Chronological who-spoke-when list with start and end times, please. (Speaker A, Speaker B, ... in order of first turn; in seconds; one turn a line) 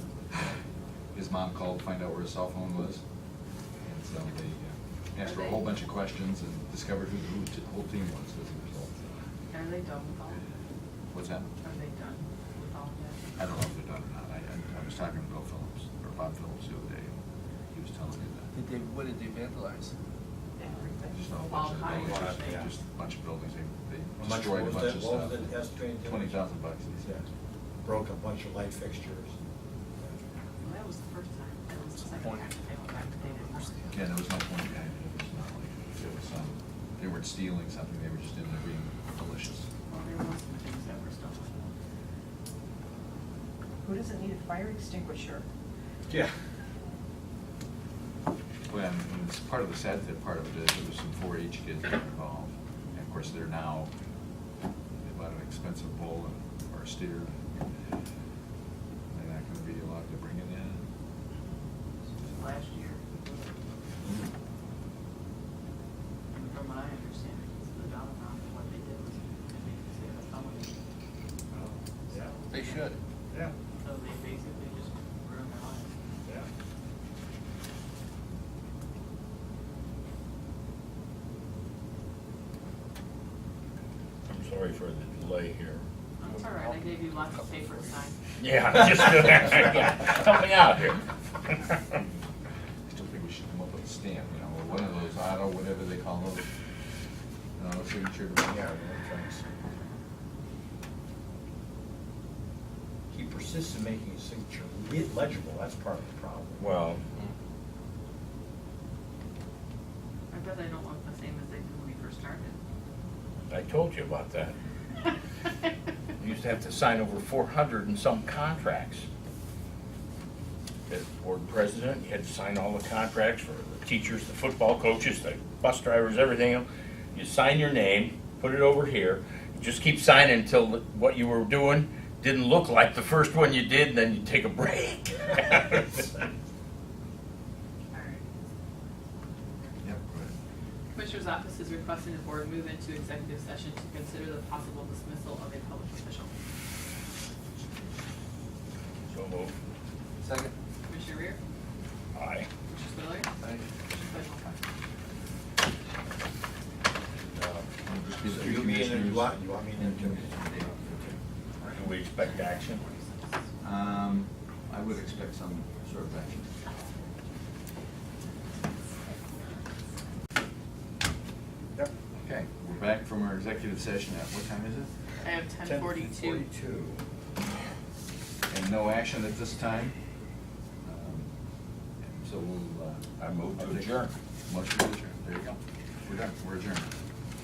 Speaker A: 1.1-3.0
Speaker A: 3.8-8.9
Speaker B: 5.3-5.6
Speaker B: 9.5-10.4
Speaker A: 11.1-11.5
Speaker B: 11.6-13.3
Speaker A: 13.4-17.1
Speaker A: 17.7-18.5
Speaker C: 18.5-19.9
Speaker D: 20.6-21.3
Speaker A: 21.1-27.1
Speaker B: 21.4-22.7
Speaker E: 22.0-22.7
Speaker E: 24.2-26.4
Speaker E: 27.8-29.3
Speaker E: 30.0-30.2
Speaker B: 30.6-33.8
Speaker C: 31.9-33.9
Speaker A: 33.9-39.7
Speaker B: 39.9-41.7
Speaker D: 43.8-45.4
Speaker A: 48.7-53.9
Speaker A: 55.0-57.5
Speaker A: 59.1-60.8
Speaker B: 62.2-63.6
Speaker B: 66.3-70.8
Speaker E: 71.5-72.3
Speaker B: 72.0-72.9
Speaker C: 72.5-73.0
Speaker B: 73.8-75.9
Speaker F: 84.3-85.8
Speaker B: 86.2-88.2
Speaker F: 88.4-91.8
Speaker A: 92.9-96.5
Speaker A: 97.6-98.6
Speaker E: 98.5-99.5
Speaker E: 103.1-106.7
Speaker F: 106.6-107.0
Speaker B: 110.3-112.6
Speaker F: 113.5-114.5
Speaker F: 116.2-119.0
Speaker F: 120.9-136.0
Speaker B: 137.9-139.8
Speaker A: 139.8-140.3
Speaker B: 140.9-146.3
Speaker F: 149.1-149.6
Speaker C: 150.2-150.5
Speaker B: 150.9-151.4
Speaker F: 152.1-152.5
Speaker B: 152.7-153.3
Speaker C: 153.4-153.7
Speaker A: 153.9-154.6
Speaker B: 153.9-154.4
Speaker A: 157.8-161.2
Speaker E: 158.2-160.3
Speaker F: 161.7-162.8
Speaker B: 162.4-163.1
Speaker A: 163.6-166.5
Speaker A: 172.2-174.9
Speaker B: 175.2-176.5
Speaker E: 175.6-177.0
Speaker A: 178.5-179.9
Speaker A: 180.8-181.3
Speaker A: 182.0-183.0
Speaker F: 183.2-184.1
Speaker A: 183.6-183.9
Speaker A: 184.5-186.9